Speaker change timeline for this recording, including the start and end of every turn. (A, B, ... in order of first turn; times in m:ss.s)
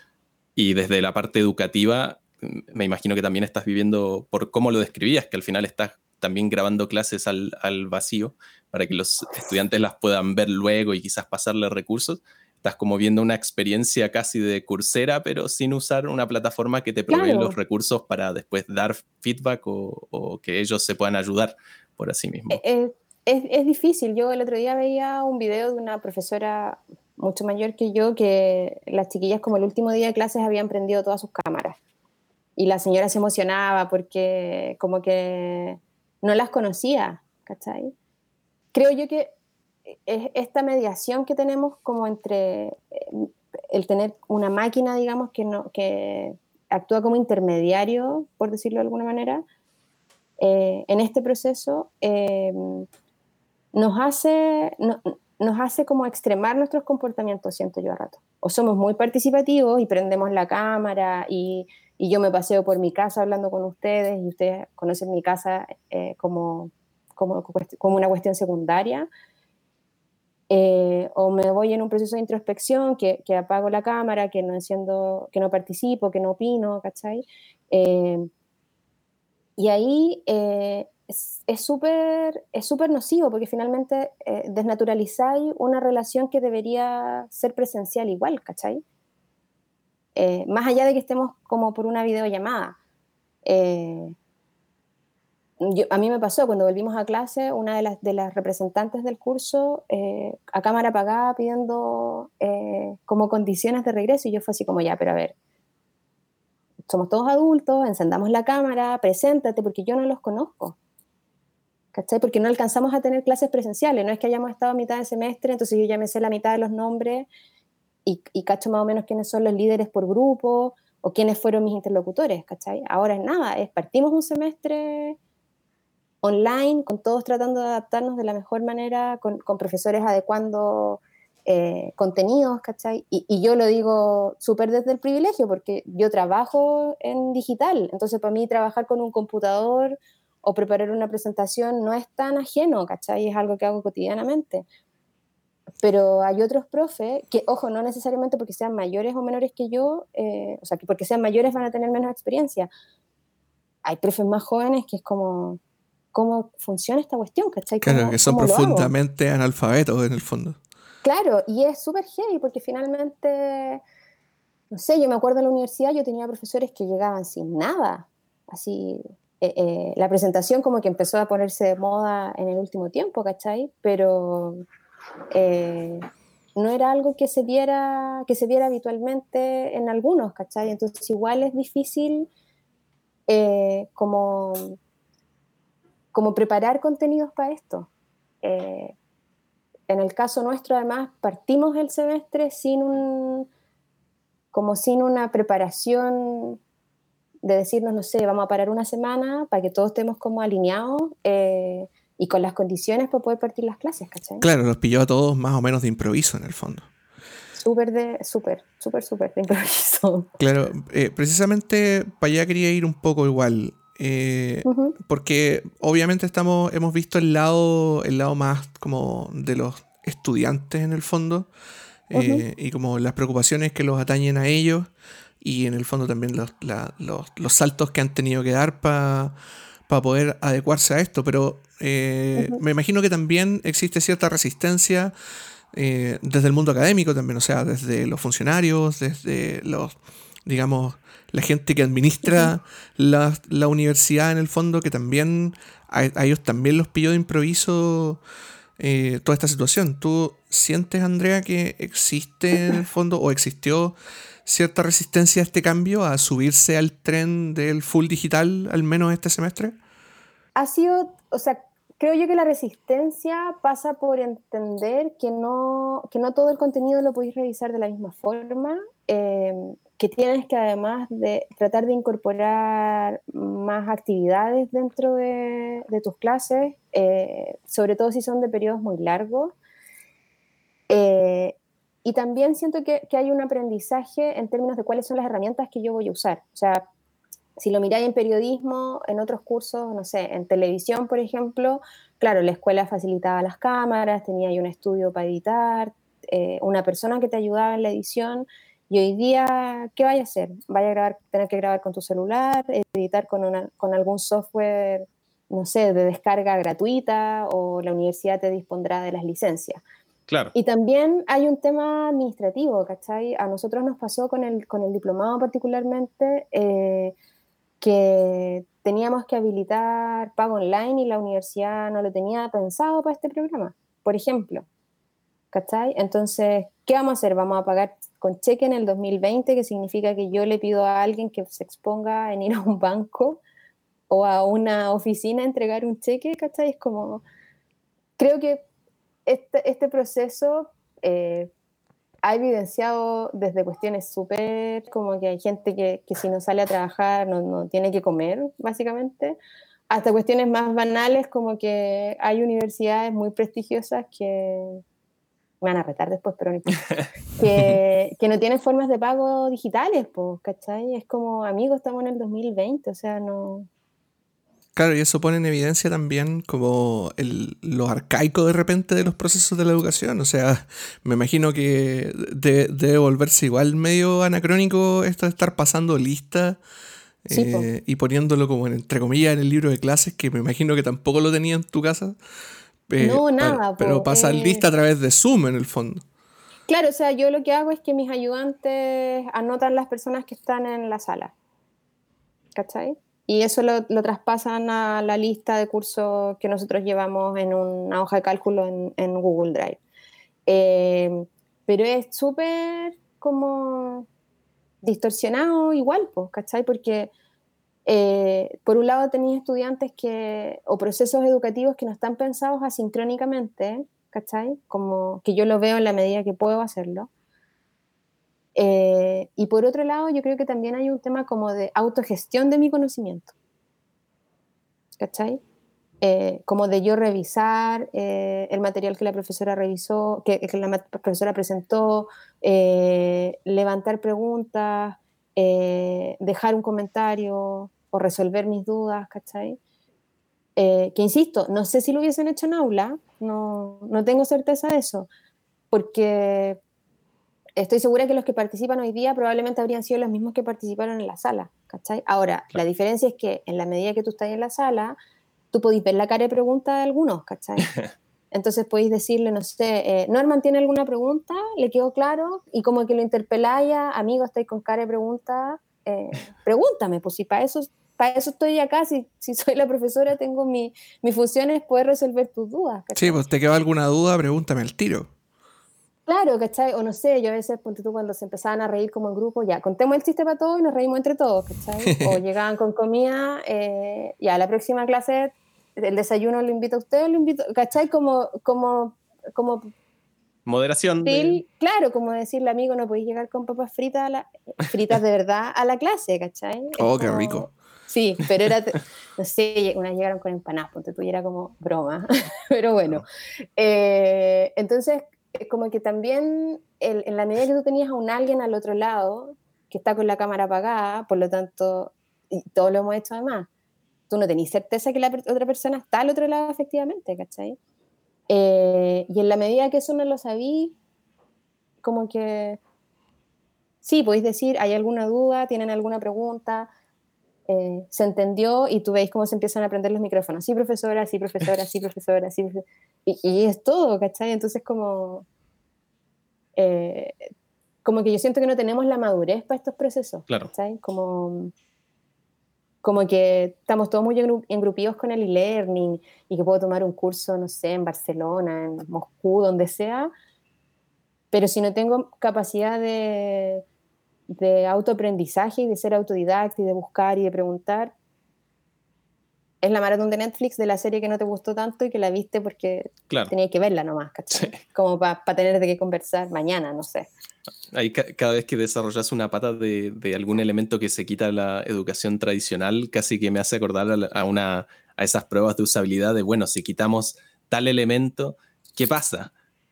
0:00.6-0:22.6 A
0:17.1-0:17.6 B
0:22.5-0:31.8 B
0:32.6-0:37.9 B
0:38.7-0:39.3 B
0:39.9-0:49.4 B
0:50.4-0:52.9 B
0:53.7-1:09.1 B
1:10.5-1:18.3 B
1:19.6-1:28.8 B
1:30.2-1:32.8 B
1:33.4-1:34.1 B
1:35.6-1:45.3 B
1:46.9-1:50.8 B
1:51.9-1:57.3 B
1:58.0-2:05.2 B
2:06.2-2:24.6 B
2:25.8-2:32.7 B
2:33.8-2:35.6 B
2:36.1-2:38.9 B
2:37.8-2:40.6 C
2:41.0-2:43.8 B
2:44.7-2:54.6 B
2:55.3-3:02.3 B
3:03.3-3:04.8 B
3:06.1-3:07.9 B
3:08.4-3:08.9 B
3:09.9-3:13.5 B
3:14.5-3:16.6 B
3:17.4-3:24.4 B
3:24.4-3:26.9 C
3:27.6-3:30.3 B
3:30.4-3:41.5 C
3:34.6-3:35.0 B
3:42.1-3:44.9 C
3:42.1-3:42.4 B
3:45.4-3:49.3 C
3:49.9-3:55.1 C
3:55.7-3:59.9 C
4:00.4-4:08.2 C
4:08.8-4:19.7 C
4:20.5-4:39.5 B
4:40.9-4:46.8 B
4:47.6-5:09.8 B
5:10.3-5:10.5 A
5:10.5-5:17.1 B
5:17.8-5:24.6 B
5:25.5-5:33.4 B
5:34.1-5:37.2 B
5:38.2-5:38.6 B
5:39.2-5:41.5 B
5:42.2-5:49.4 B
5:49.9-5:54.8 B
5:55.6-5:56.8 B
5:57.4-6:03.7 B
6:04.8-6:16.6 C
6:17.2-6:22.2 C
6:17.3-6:17.7 B
6:22.9-6:26.0 C
6:23.0-6:24.6 B
6:26.7-6:31.3 B
6:32.6-6:39.8 B
6:40.5-6:44.1 B
6:44.8-6:47.1 B
6:47.8-6:57.1 B
6:58.5-7:03.3 B
7:05.0-7:05.4 B
7:06.0-7:19.6 B
7:20.6-7:25.1 B
7:25.7-7:26.6 B
7:27.6-7:35.0 B
7:35.5-7:37.7 B
7:38.3-7:53.2 B
7:53.0-7:55.1 C
7:56.1-8:09.7 B
8:01.8-8:02.2 C
8:10.4-8:11.4 A
8:11.0-8:23.0 B
8:16.8-8:17.5 C
8:23.6-8:33.5 B
8:34.1-8:37.6 B
8:38.3-8:40.7 B
8:41.8-8:42.6 B
8:43.8-8:46.7 B
8:47.5-8:55.2 B
8:56.6-8:57.3 B
8:57.8-9:01.5 B
9:02.8-9:10.1 B
9:11.3-9:13.6 B
9:14.3-9:17.9 B
9:19.6-9:27.1 B
9:27.7-9:39.3 A